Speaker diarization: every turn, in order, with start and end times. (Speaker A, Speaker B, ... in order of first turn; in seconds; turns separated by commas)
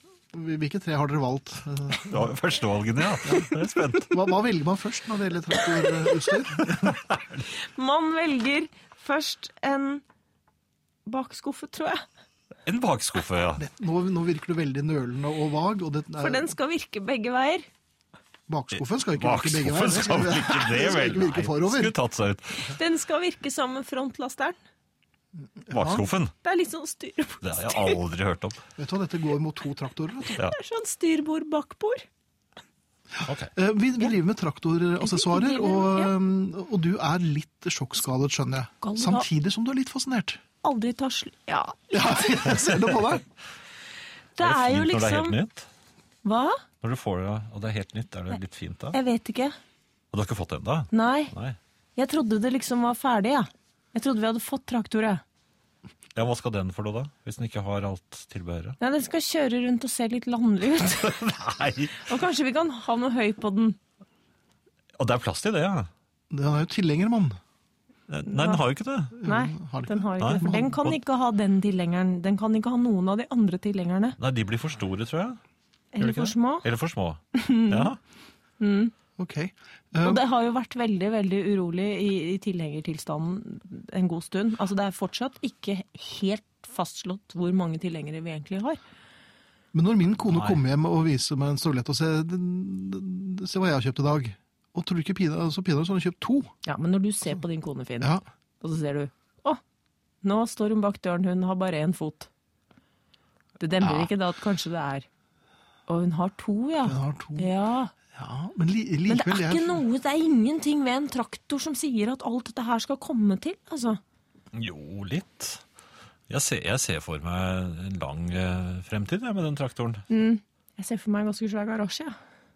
Speaker A: 0.3-2.3, Speaker B: 2.0-4.2, Speaker A: 3.2-7.0, Speaker B: 6.6-7.5, Speaker C: 7.5-10.0, Speaker C: 11.1-12.0, Speaker B: 12.7-13.6, Speaker A: 13.6-16.5, Speaker C: 16.2-17.6, Speaker A: 18.5-21.9, Speaker B: 19.1-22.7, Speaker C: 22.6-24.6, Speaker A: 25.6-26.0, Speaker B: 25.7-26.3, Speaker C: 26.4-28.0, Speaker B: 27.4-28.6, Speaker A: 28.8-30.4, Speaker C: 30.3-32.0, Speaker A: 33.1-40.4, Speaker B: 33.2-33.5, Speaker C: 35.0-36.1, Speaker C: 38.8-39.3, Speaker C: 40.6-42.3, Speaker A: 41.9-43.2, Speaker C: 44.4-45.4, Speaker B: 44.4-45.6, Speaker C: 46.2-46.6, Speaker B: 46.8-49.0, Speaker C: 48.9-49.5, Speaker B: 50.1-51.6, Speaker C: 50.9-51.3, Speaker C: 52.0-55.2, Speaker B: 56.1-58.8, Speaker C: 58.8-61.2, Speaker B: 61.0-62.1, Speaker C: 62.0-63.8, Speaker B: 65.0-65.9, Speaker A: 66.3-67.4, Speaker B: 68.1-69.2, Speaker C: 68.3-68.6, Speaker A: 69.2-70.8, Speaker C: 69.2-74.2, Speaker B: 70.2-70.9, Speaker B: 74.2-75.4, Speaker C: 75.9-76.7, Speaker B: 76.0-78.0, Speaker C: 77.3-77.9, Speaker C: 78.6-78.9, Speaker A: 79.2-80.2, Speaker C: 80.0-88.8, Speaker A: 89.7-96.5, Speaker B: 90.3-90.6, Speaker C: 96.6-99.6, Speaker C: 100.2-102.3, Speaker C: 103.6-105.1, Speaker C: 105.9-107.9, Speaker A: 106.8-107.5, Speaker A: 108.1-109.8, Speaker C: 109.1-114.0, Speaker B: 114.5-115.6, Speaker B: 116.3-120.0, Speaker C: 120.1-122.1